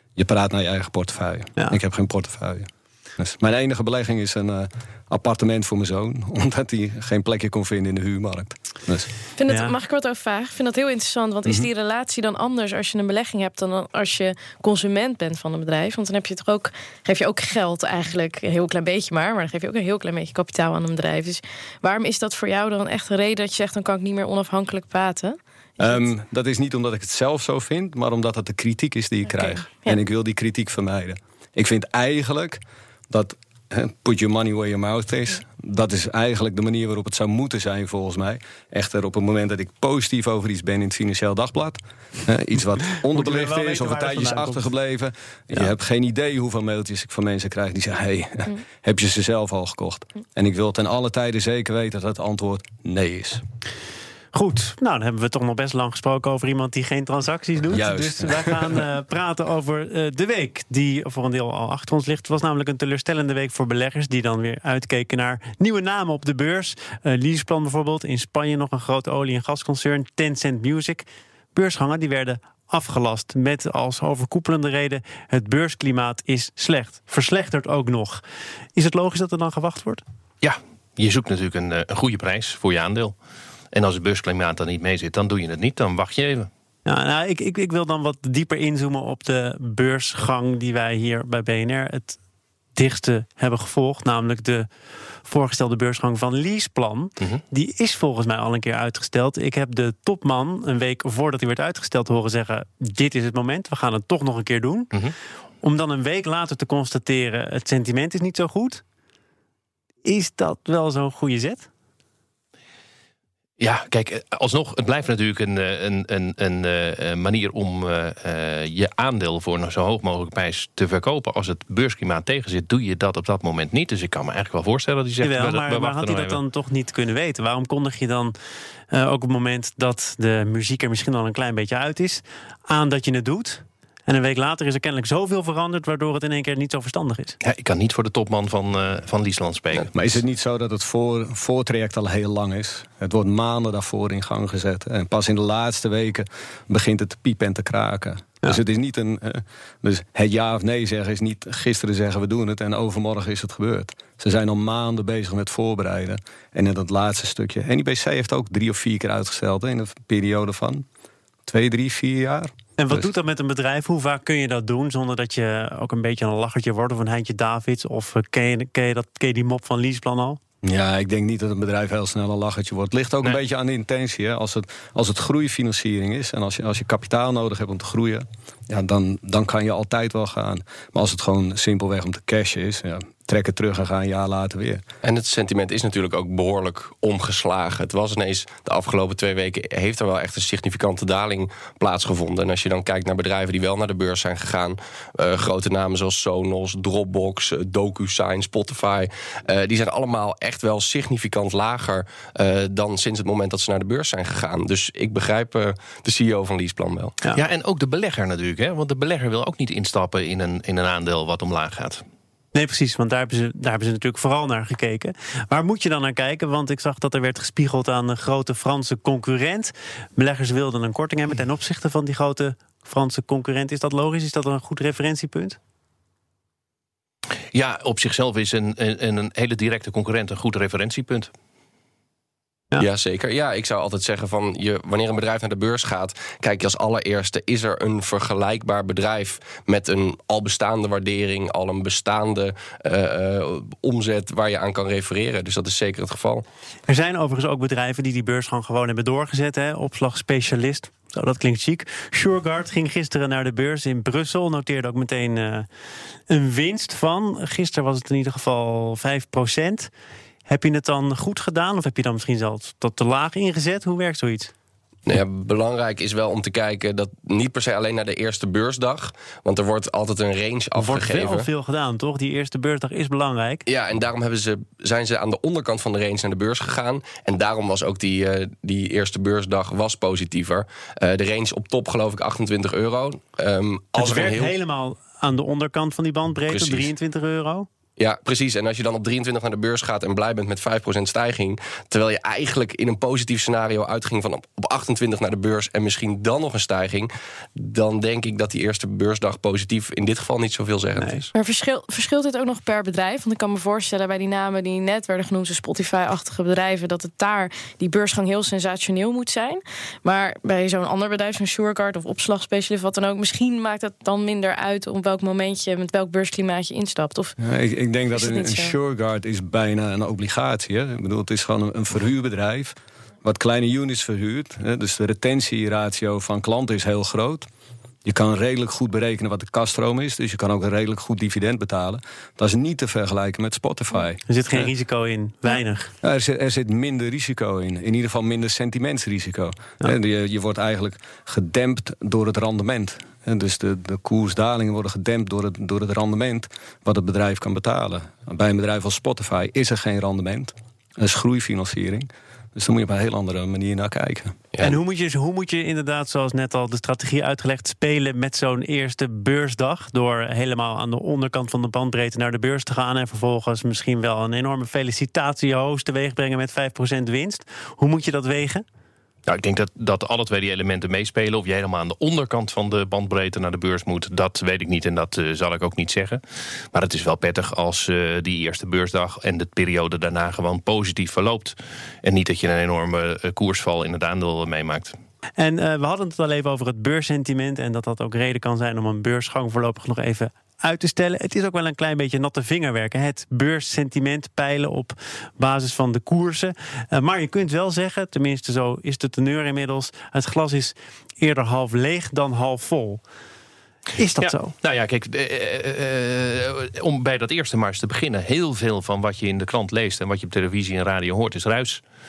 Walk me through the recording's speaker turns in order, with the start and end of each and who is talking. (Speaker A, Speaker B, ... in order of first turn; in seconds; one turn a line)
Speaker A: 0.1-9.1
Speaker B: 9.4-26.1
Speaker C: 9.5-9.7
Speaker A: 25.8-53.4
Speaker B: 29.3-30.0
Speaker C: 43.1-44.7
Speaker C: 54.3-78.2
Speaker A: 57.7-58.9
Speaker C: 78.7-80.0
Speaker D: 80.4-83.1
Speaker D: 83.7-86.5
Speaker C: 86.8-92.2
Speaker C: 92.7-94.7
Speaker C: 95.2-104.9
Speaker C: 105.6-108.8
Speaker C: 110.0-111.7
Speaker D: 113.6-126.4
Speaker C: 125.2-128.3
Speaker C: 128.9-137.4
Speaker D: 137.4-140.2
Speaker A: 139.9-160.8
Speaker A: 161.5-163.1
Speaker C: 162.8-170.4
Speaker A: 170.6-184.8
Speaker E: 185.0-207.2
Speaker D: 207.3-212.0
Speaker C: 212.5-225.6
Speaker D: 227.5-231.3
Speaker E: 232.8-246.4
Speaker C: 246.9-255.7
Speaker C: 256.3-259.9
Speaker C: 260.4-264.5
Speaker E: 265.1-271.5
Speaker C: 270.7-273.6
Speaker E: 273.6-284.5
Speaker C: 284.0-287.7
Speaker E: 286.5-286.9
Speaker E: 288.0-301.3
Speaker C: 301.0-301.2
Speaker B: 301.3-317.4
Speaker A: 317.4-327.5
Speaker B: 318.1-318.7
Speaker A: 328.0-334.7
Speaker C: 334.3-335.9
Speaker A: 336.0-354.4
Speaker E: 354.5-354.8
Speaker C: 354.6-368.6
Speaker D: 369.3-376.2
Speaker D: 376.7-384.9
Speaker C: 385.4-403.0
Speaker C: 404.0-404.5
Speaker D: 404.2-411.8